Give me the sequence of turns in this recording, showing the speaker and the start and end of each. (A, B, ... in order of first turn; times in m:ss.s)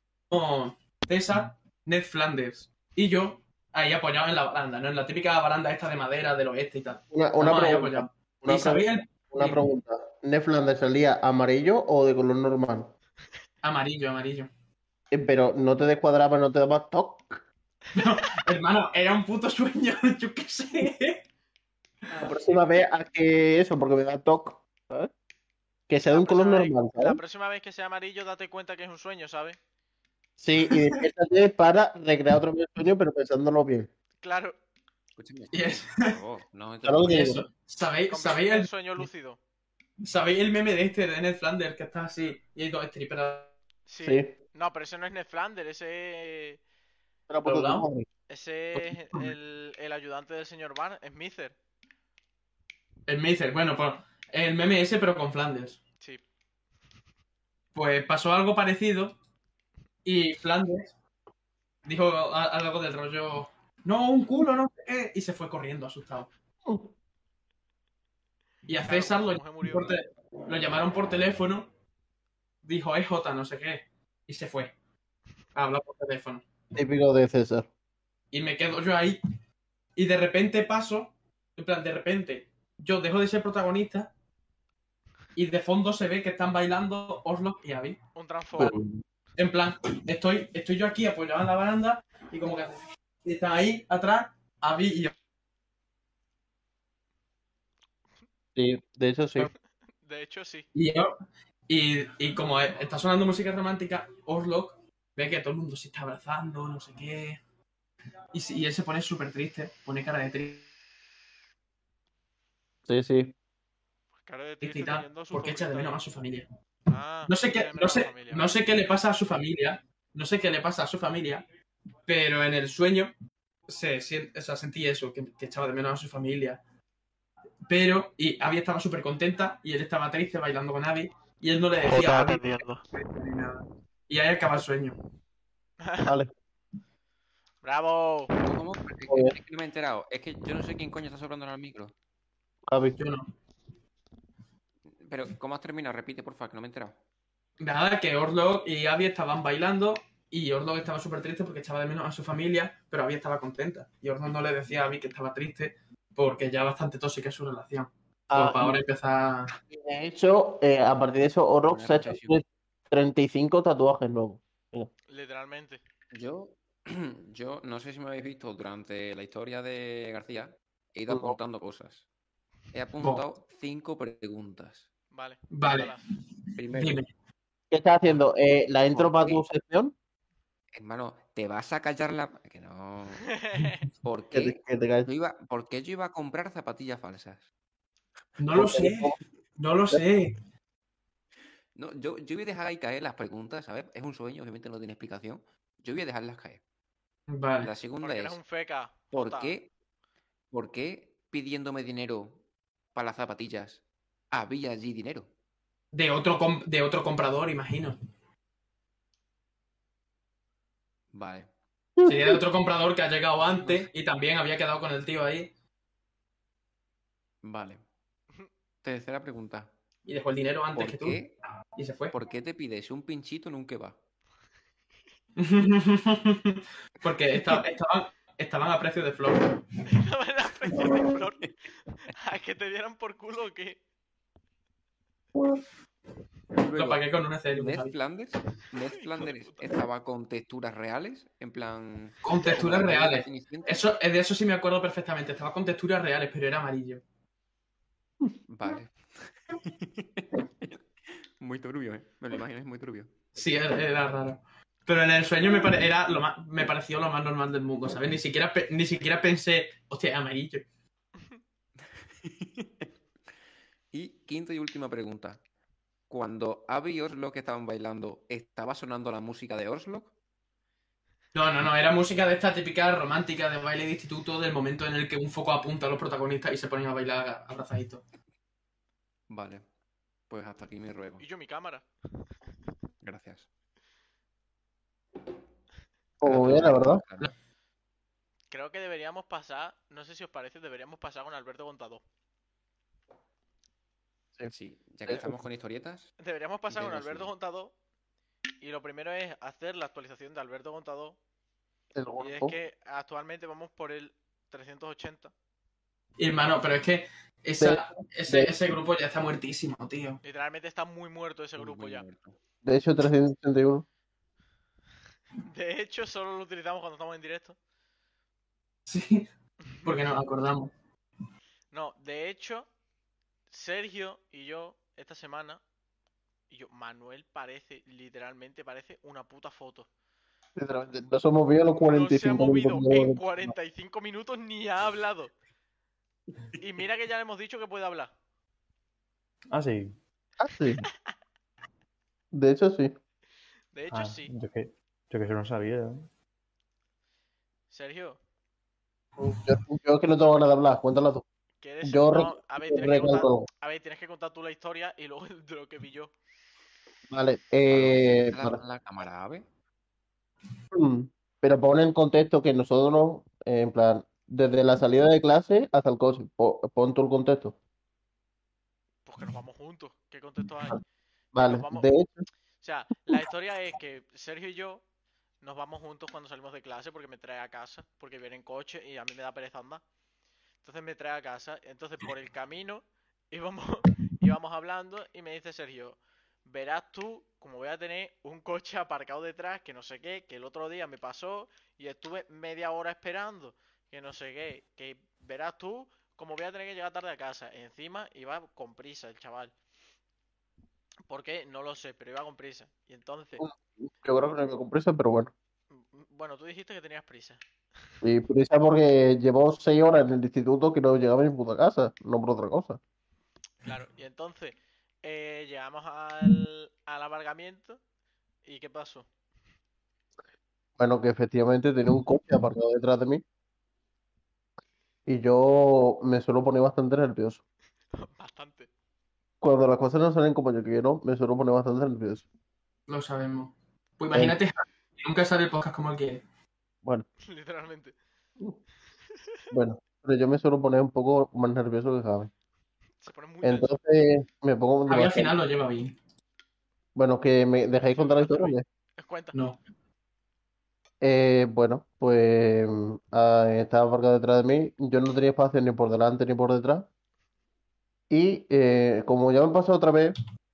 0:00.3-0:09.6 A
0:07.1-0:12.9 B
0:13.6-0:14.5 A
0:15.1-0:17.4 B
0:18.0-0:21.2 A
0:22.1-0:25.1 B
0:25.9-0:27.2 B
0:26.1-0:29.6 C
0:30.4-0:33.9 B
0:30.6-0:31.0 A
0:34.2-0:34.6 C
0:35.2-0:37.3 D
0:35.5-0:36.1 A
0:36.8-0:37.4 B
0:37.1-0:38.7 A
0:38.1-0:39.4 C
0:40.0-0:43.5 A
0:43.9-0:46.6 C
0:44.0-0:44.3 B
0:47.3-0:48.1 B
0:47.4-0:47.9 A
0:48.3-0:51.6 C
0:53.1-0:55.8 A
0:57.8-0:59.2 A
1:00.0-1:00.9 A
1:01.9-1:06.3 A
1:08.7-1:11.7 A
1:08.8-1:09.9 C
1:12.6-1:14.7 A
1:15.6-1:16.4 A
1:16.7-1:17.7 B
1:18.3-1:19.2 A
1:20.0-1:24.1 A
1:25.4-1:28.0 A
1:28.2-1:28.8 C
1:28.6-1:29.0 B
1:29.4-1:35.1 A
1:38.6-1:39.5 B
1:40.0-1:40.7 C
1:40.7-1:41.1 A
1:41.7-1:47.4 A
1:48.3-1:50.7 A
1:52.9-1:53.4 B
1:54.3-1:56.0 C
1:54.6-1:56.5 A
1:56.9-1:58.5 C
1:57.3-2:01.4 A
2:02.1-2:03.1 A
2:03.7-2:06.6 A
2:07.7-2:15.0 A
2:11.9-2:12.8 B
2:15.8-2:16.1 C
2:16.0-2:16.3 B
2:17.6-2:18.4 C
2:18.4-2:21.9 D
2:19.1-2:19.4 B
2:22.7-2:23.0 B
2:23.0-2:23.3 A
2:25.0-2:27.0 D
2:27.6-2:39.5 A
2:38.3-2:38.8 B
2:39.7-2:44.9 B
2:41.7-2:42.4 D
2:45.1-2:45.8 C
2:46.1-2:52.1 D
2:51.1-2:51.4 B
2:52.7-2:54.9 D
2:55.1-2:56.0 C
2:55.5-2:56.1 A
2:56.6-2:57.0 D
2:56.7-2:57.1 A
2:57.7-2:59.9 B
2:58.9-2:59.4 D
3:00.7-3:03.3 D
3:03.3-3:03.8 C
3:04.0-3:07.4 D
3:04.3-3:05.1 B
3:08.4-3:10.3 A
3:08.5-3:09.2 B
3:11.8-3:16.6 D
3:17.3-3:17.7 A
3:17.6-3:18.4 D
3:18.0-3:19.5 C
3:19.1-3:19.7 D
3:20.5-3:22.4 D
3:22.9-3:23.8 D
3:24.3-3:25.3 D
3:25.9-3:28.0 A
3:31.1-3:31.5 D
3:32.0-3:32.4 B
3:32.1-3:35.5 A
3:33.6-3:33.9 D
3:37.4-3:37.8 D
3:38.8-3:39.7 D
3:40.1-3:41.2 A
3:40.8-3:41.4 D
3:41.8-3:42.1 A
3:42.1-3:44.0 D
3:45.4-3:49.6 A
3:49.9-3:51.5 C
3:52.1-3:53.8 C
3:56.6-4:03.8 D
3:56.7-3:58.0 A
3:59.1-3:59.6 C
4:02.2-4:07.0 A
4:08.5-4:10.8 D
4:11.4-4:13.1 D
4:13.4-4:20.6 A
4:22.2-4:22.8 D
4:23.9-4:25.4 D
4:26.1-4:30.1 D
4:31.3-4:38.0 A
4:39.3-4:39.6 D
4:40.3-4:41.2 D
4:41.2-4:41.9 C
4:43.0-4:43.5 D
4:46.2-4:47.0 B
4:46.2-4:47.3 D
4:48.5-4:52.0 C
4:54.5-4:56.1 D
4:55.1-4:55.4 B
4:56.2-4:57.7 C
4:56.7-4:57.3 D
4:58.6-5:01.2 C
5:02.0-5:02.6 B
5:02.2-5:05.3 C
5:06.2-5:10.2 A
5:07.6-5:08.5 B
5:10.2-5:12.0 C
5:11.6-5:12.4 D
5:12.6-5:13.8 B
5:15.5-5:17.6 C
5:18.9-5:19.3 A
5:19.8-5:20.7 A
5:21.7-5:22.7 C
5:23.5-5:25.6 C
5:26.5-5:29.9 C
5:30.6-5:33.5 B
5:31.8-5:35.3 C
5:36.6-5:38.1 C
5:39.5-5:40.0 E
5:40.4-5:40.8 B
5:42.3-5:42.9 B
5:43.7-5:44.3 C
5:43.9-5:46.1 E
5:47.7-5:48.2 C
5:49.2-5:51.2 B
5:51.6-5:56.1 C
5:51.8-5:53.5 B
5:57.1-5:58.6 B
5:57.7-5:59.4 D
6:00.7-6:07.6 B
6:09.1-6:10.8 C
6:11.3-6:12.2 B
6:11.4-6:11.9 C
6:12.6-6:14.8 C
6:15.4-6:19.8 C
6:20.6-6:39.5 C
6:41.1-6:43.4 C
6:43.4-6:45.3 B
6:45.7-6:47.4 C
6:48.0-6:52.8 B
6:53.6-6:57.8 C
6:58.4-6:59.1 C
7:00.8-7:03.2 B
7:05.1-7:07.4 B
7:08.0-7:08.7 C
7:09.4-7:12.2 B
7:12.9-7:16.2 A
7:17.2-7:17.9 C
7:19.5-7:22.3 B
7:23.0-7:23.7 C
7:23.4-7:25.3 B
7:24.9-7:26.0 A
7:27.0-7:28.6 B
7:27.9-7:29.4 C
7:29.3-7:29.6 A
7:31.0-7:36.9 B
7:38.1-7:40.2 B